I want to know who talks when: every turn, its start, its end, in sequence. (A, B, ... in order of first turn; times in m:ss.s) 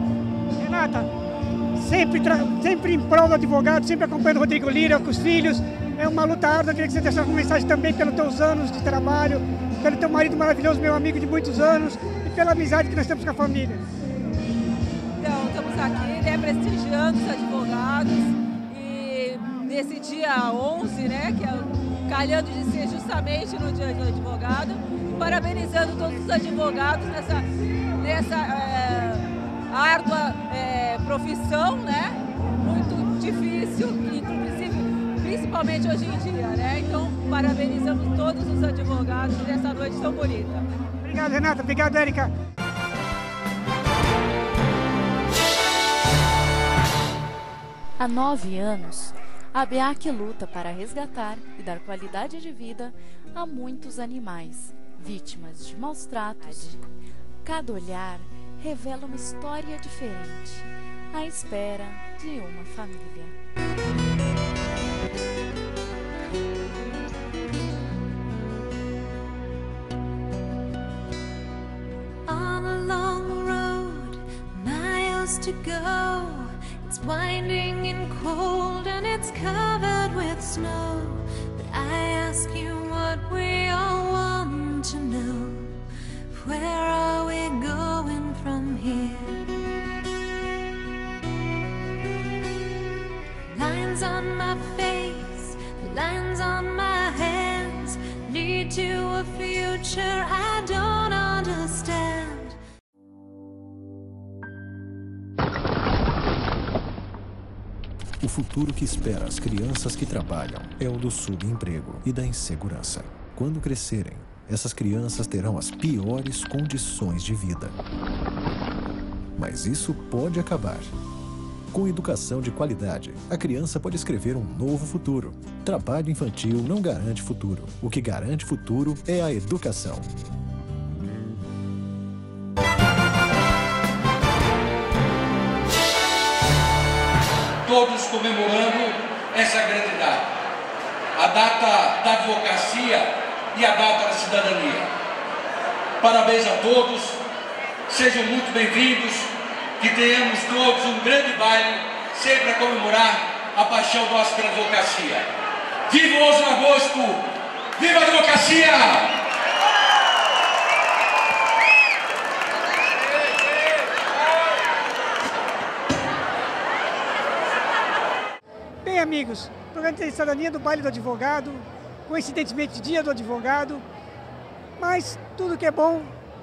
0:00.6-0:01.1 A
0:01.8-0:13.8 A
0:15.2-0:40.6 B
0:41.0-0:42.3 A
0:48.0-0:56.8 C
0:57.4-1:03.4 C
1:12.3-1:25.8 D
1:26.3-1:29.5 D
1:33.5-1:42.6 D
1:48.2-1:57.8 E
1:59.4-2:01.0 E
2:01.7-2:10.1 E
2:17.6-2:20.2 F
2:21.2-2:24.9 F
2:26.0-2:27.2 F
2:27.9-2:35.3 F
2:35.9-2:39.1 F
2:48.8-2:53.8 A
2:54.8-2:56.1 A